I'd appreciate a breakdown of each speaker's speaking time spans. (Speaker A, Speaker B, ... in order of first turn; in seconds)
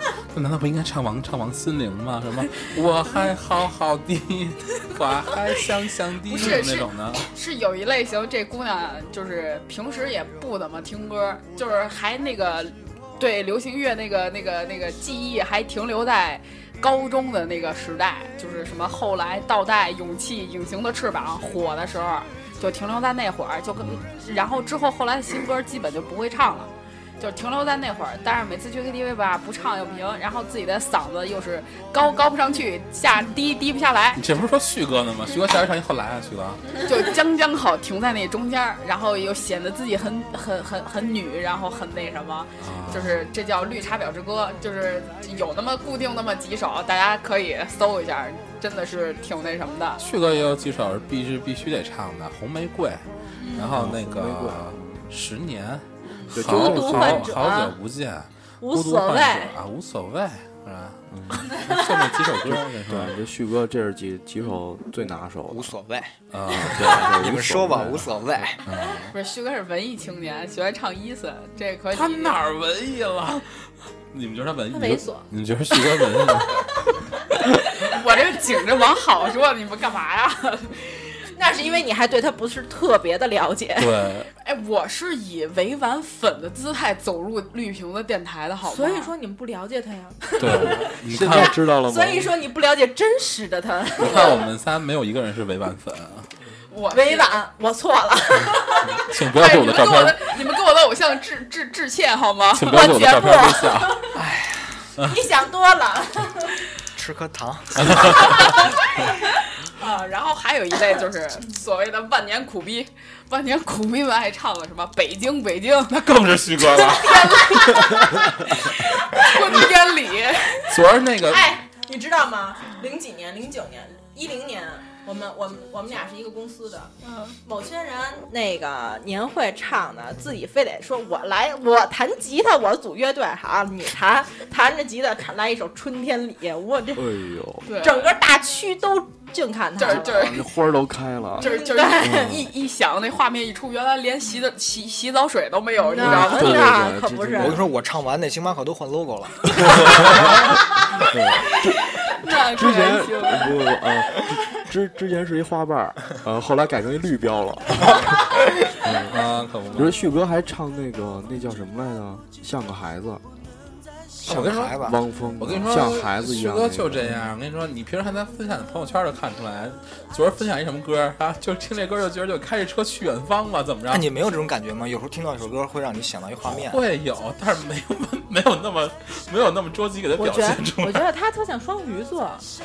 Speaker A: 0.3-7.3, 23.8-24.0, 34.1-36.8, 42.6-43.3, 50.0-63.1, 66.3-67.1, 68.6-69.1, 71.9-76.6, 83.8-84.3, 90.4-91.5, 94.0-96.3, 98.9-100.2, 102.5-104.1, 107.8-108.5, 115.9-118.0, 120.7-121.5, 159.1-160.0, 164.2-164.8, 165.4-174.1, 176.4-181.1
Speaker B: 6.3-34.2, 36.8-50.0, 69.1-72.4, 77.7-80.8, 84.4-89.1, 96.7-97.4, 99.3-103.1, 109.8-116.0, 116.7-118.2, 119.0-120.6, 127.0-127.3, 137.7-138.2, 139.8-140.4, 141.4-146.6, 152.0-153.5
Speaker C: 53.4-53.7, 56.2-57.7, 58.6-59.5, 61.6-61.8, 74.7-75.3, 81.3-84.0, 88.6-94.4, 96.9-99.0, 102.7-104.1, 105.0-106.5, 116.7-118.2, 119.1-119.6, 121.2-126.9, 127.4-137.1, 137.7-140.3, 141.4-142.3, 145.9-147.6, 180.2-182.4
Speaker D: 53.6-55.1, 56.3-57.4, 61.1-61.5, 62.5-65.7, 66.5-68.5, 91.0-92.3, 136.9-137.7, 139.8-142.5, 145.9-147.7, 149.6-158.1, 158.8-159.2, 159.7-163.2, 164.8-167.2
Speaker E: 65.5-68.6, 104.1-104.9, 106.9-108.4, 147.3-150.1, 164.2-165.0, 173.9-176.8